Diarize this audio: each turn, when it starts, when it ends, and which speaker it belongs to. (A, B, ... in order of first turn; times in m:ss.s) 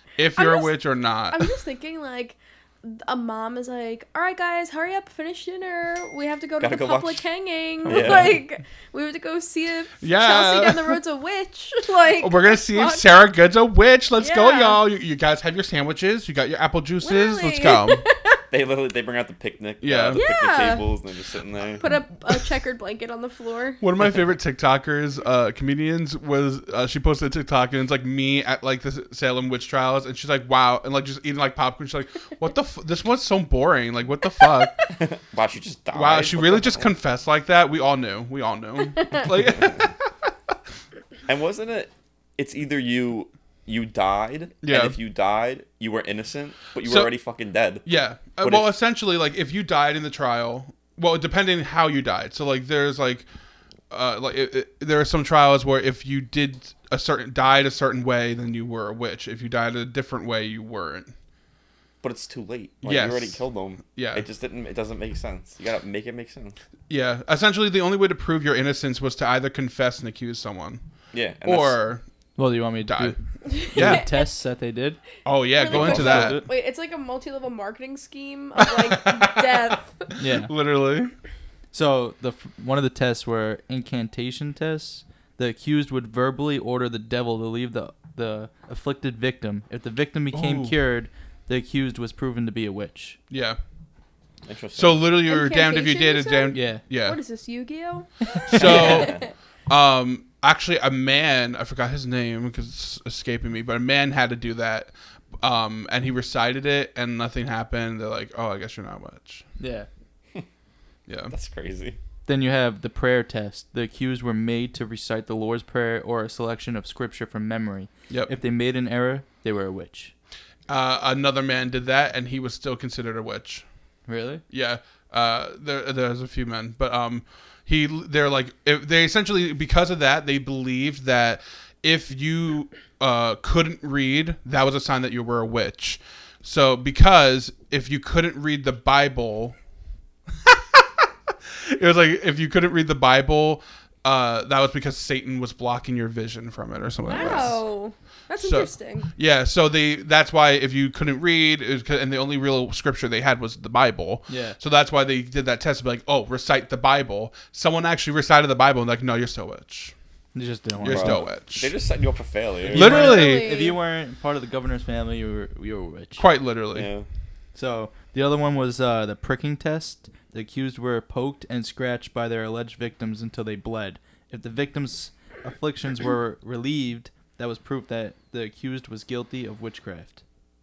0:00.2-0:01.5 A
0:00.4-0:00.7 B
0:01.3-0:13.1 B
0:06.6-0:07.3 C
0:07.8-0:08.4 C
0:07.9-0:08.3 A
0:10.0-0:11.0 A
0:12.2-0:18.0 A
0:14.2-0:14.8 B
0:17.0-0:18.4 B
0:18.5-0:21.9 C
0:19.8-0:20.2 A
0:20.1-0:20.9 B
0:21.7-0:23.8 B
0:23.8-0:34.9 A
0:34.9-0:37.0 C
0:35.9-0:40.1 A
0:39.0-0:39.3 B
0:41.3-0:47.8 C
0:44.6-0:45.0 A
0:46.8-0:47.1 A
0:47.8-0:53.3 A
0:48.4-0:48.7 C
0:53.9-1:01.1 A
1:02.0-1:06.6 C
1:02.8-1:04.2 A
1:06.9-1:10.8 A
1:11.1-1:11.8 C
1:11.4-1:12.0 A
1:12.4-1:15.0 D
1:12.8-1:14.1 A
1:13.4-1:14.3 B
1:15.2-1:16.4 A
1:15.6-1:20.2 B
1:15.7-1:16.5 D
1:18.6-1:19.7 A
1:20.2-1:20.5 D
1:20.3-1:21.1 A
1:21.7-1:33.2 D
1:30.3-1:30.8 A
1:33.3-1:33.6 A
1:34.5-1:35.1 C
1:34.8-1:37.2 A
1:35.3-1:39.3 B
1:36.5-1:36.8 D
1:38.5-1:49.4 A
1:38.5-1:39.2 C
1:49.6-1:49.9 D
1:51.1-1:51.3 A
1:51.3-1:52.0 C
1:52.3-2:00.1 D
2:00.7-2:03.6 A
2:04.1-2:04.4 D
2:04.5-2:19.6 A
2:20.5-2:21.0 A
2:21.6-2:27.7 A
2:27.0-2:29.1 B
2:28.4-2:39.9 A
2:34.3-2:34.6 D
2:40.3-2:41.2 D
2:40.8-2:41.7 A
2:40.8-2:42.9 C
2:42.7-2:46.3 D
2:42.7-2:43.5 A
2:42.8-2:43.8 B
2:46.2-2:46.9 A
2:46.7-2:47.1 C
2:47.6-3:00.2 D